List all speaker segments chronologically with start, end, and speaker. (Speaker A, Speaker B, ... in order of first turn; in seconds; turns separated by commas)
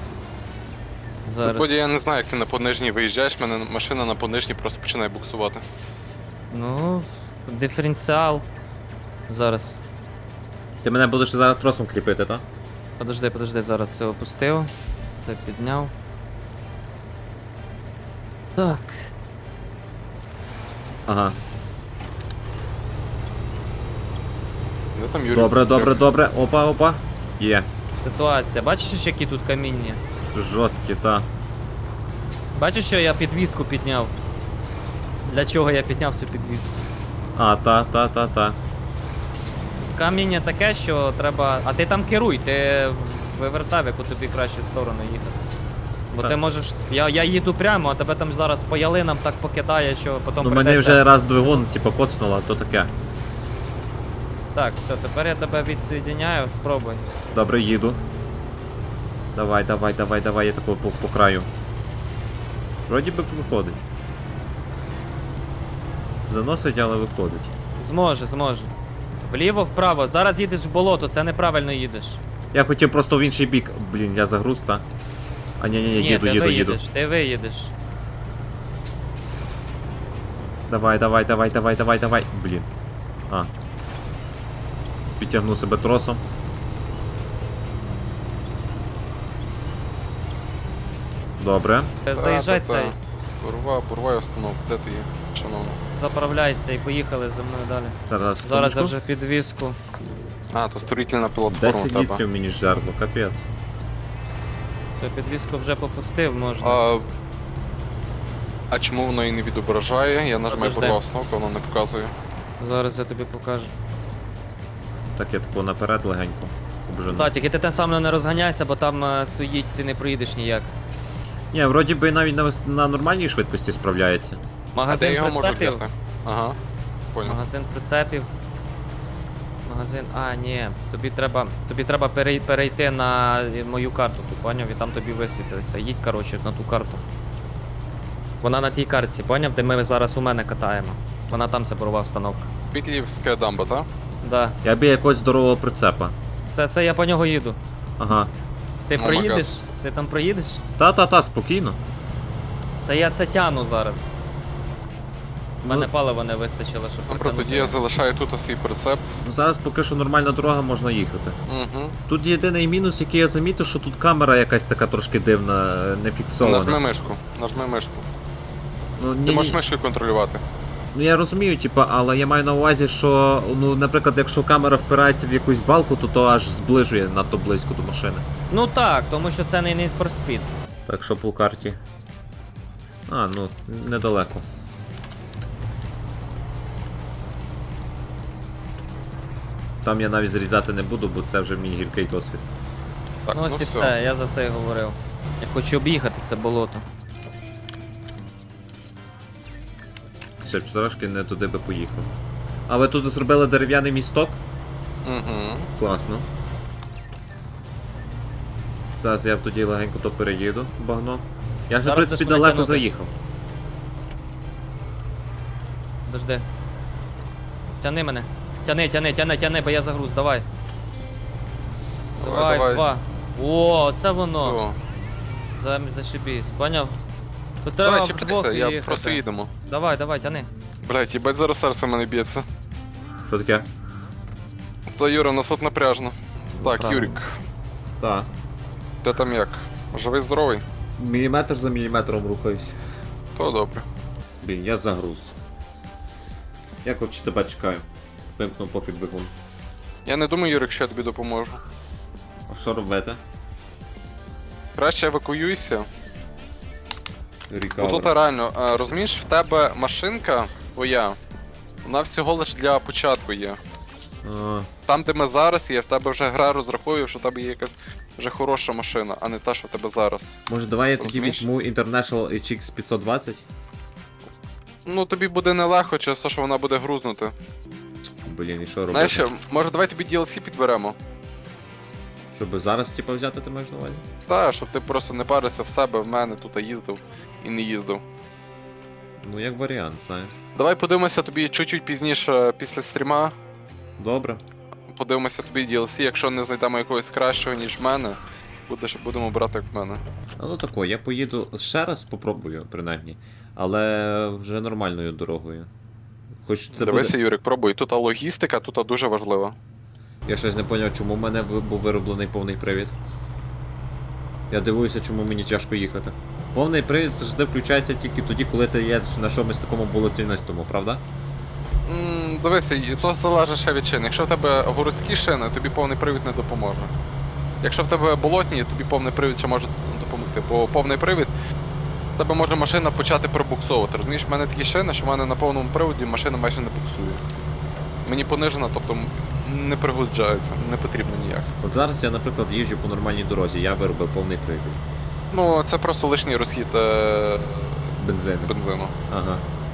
Speaker A: 1.2-1.8, Speaker B: 1.4-5.6, Speaker A: 6.5-8.5, Speaker A: 9.3-9.8, Speaker C: 10.8-12.4, Speaker A: 13.0-14.7, Speaker A: 15.2-15.9, Speaker A: 18.6-19.0, Speaker C: 21.1-21.4, Speaker B: 24.9-26.0, Speaker C: 25.3-27.7, Speaker A: 28.0-30.0, Speaker C: 30.3-31.3, Speaker A: 32.5-34.1, Speaker A: 35.2-36.8, Speaker C: 37.4-38.6, Speaker A: 39.9-45.4, Speaker A: 46.1-51.0, Speaker C: 50.4-52.9, Speaker A: 54.5-57.0, Speaker C: 57.3-58.0, Speaker C: 59.3-61.5, Speaker C: 62.9-63.8, Speaker C: 66.3-67.5, Speaker A: 67.8-72.2, Speaker C: 72.5-74.8, Speaker C: 75.6-76.8, Speaker A: 75.9-77.7, Speaker C: 80.7-82.7, Speaker C: 85.2-86.2, Speaker C: 91.4-92.0, Speaker A: 92.0-93.0, Speaker B: 92.1-95.8, Speaker A: 95.9-99.8, Speaker C: 98.1-99.0, Speaker B: 100.5-102.2, Speaker C: 101.5-103.5, Speaker A: 105.0-106.8, Speaker B: 106.6-107.1, Speaker B: 108.7-112.1, Speaker A: 110.5-111.0, Speaker A: 112.6-113.7, Speaker C: 115.1-117.3, Speaker A: 117.1-120.7, Speaker C: 121.5-124.4, Speaker A: 124.7-125.8, Speaker B: 124.9-126.6, Speaker B: 127.1-127.4, Speaker A: 127.2-128.3, Speaker A: 129.6-137.0, Speaker A: 138.4-142.5, Speaker B: 142.7-143.9, Speaker A: 144.2-144.6, Speaker C: 144.6-146.2, Speaker A: 146.5-147.6, Speaker C: 148.0-148.3, Speaker A: 148.9-150.6, Speaker B: 148.9-149.5, Speaker C: 150.8-151.8, Speaker A: 152.8-154.1, Speaker C: 155.6-155.9, Speaker A: 155.7-157.8, Speaker B: 157.1-159.0, Speaker C: 159.2-161.4, Speaker B: 161.5-162.0, Speaker C: 162.1-166.8, Speaker B: 166.4-168.1, Speaker C: 169.0-169.6, Speaker B: 169.2-170.4, Speaker C: 170.9-178.2, Speaker A: 178.5-180.5, Speaker C: 180.9-181.8, Speaker C: 183.1-184.4, Speaker C: 189.8-192.4, Speaker B: 193.3-193.9, Speaker A: 193.3-196.8, Speaker C: 200.4-202.1, Speaker C: 202.7-204.4, Speaker B: 205.1-205.7, Speaker C: 205.8-206.3, Speaker C: 209.0-213.1, Speaker A: 211.8-212.8, Speaker A: 216.1-216.5, Speaker A: 217.8-220.5, Speaker B: 222.2-222.9, Speaker A: 222.2-224.6, Speaker B: 224.4-224.8, Speaker A: 225.5-227.0, Speaker A: 227.6-230.5, Speaker B: 227.8-229.5, Speaker B: 230.8-232.4, Speaker C: 233.3-233.7, Speaker B: 234.9-237.4, Speaker A: 236.6-237.2, Speaker C: 238.0-238.3, Speaker B: 239.0-240.6, Speaker C: 241.0-242.8, Speaker B: 243.4-243.9, Speaker C: 244.4-245.4, Speaker C: 246.8-247.9, Speaker C: 248.4-249.3, Speaker B: 250.1-251.6, Speaker C: 252.5-253.2, Speaker B: 254.8-255.9, Speaker C: 257.5-258.1, Speaker B: 257.8-261.2, Speaker B: 261.9-263.6, Speaker C: 264.2-264.7, Speaker B: 264.9-270.4, Speaker C: 270.5-273.4, Speaker B: 271.0-271.5, Speaker B: 274.9-277.3, Speaker C: 278.2-279.3, Speaker B: 278.9-281.0, Speaker C: 282.3-284.0, Speaker B: 284.3-288.0, Speaker C: 289.2-290.3, Speaker B: 290.6-293.3, Speaker C: 294.0-294.4, Speaker B: 294.9-300.0, Speaker C: 300.4-305.7, Speaker C: 306.4-307.1, Speaker B: 306.7-309.6, Speaker C: 310.3-312.9, Speaker C: 314.5-321.0, Speaker B: 321.9-326.9, Speaker B: 327.6-331.3, Speaker B: 332.2-337.2, Speaker B: 338.1-341.5, Speaker C: 341.6-344.8, Speaker B: 345.3-348.9, Speaker C: 348.0-348.5, Speaker C: 349.1-349.4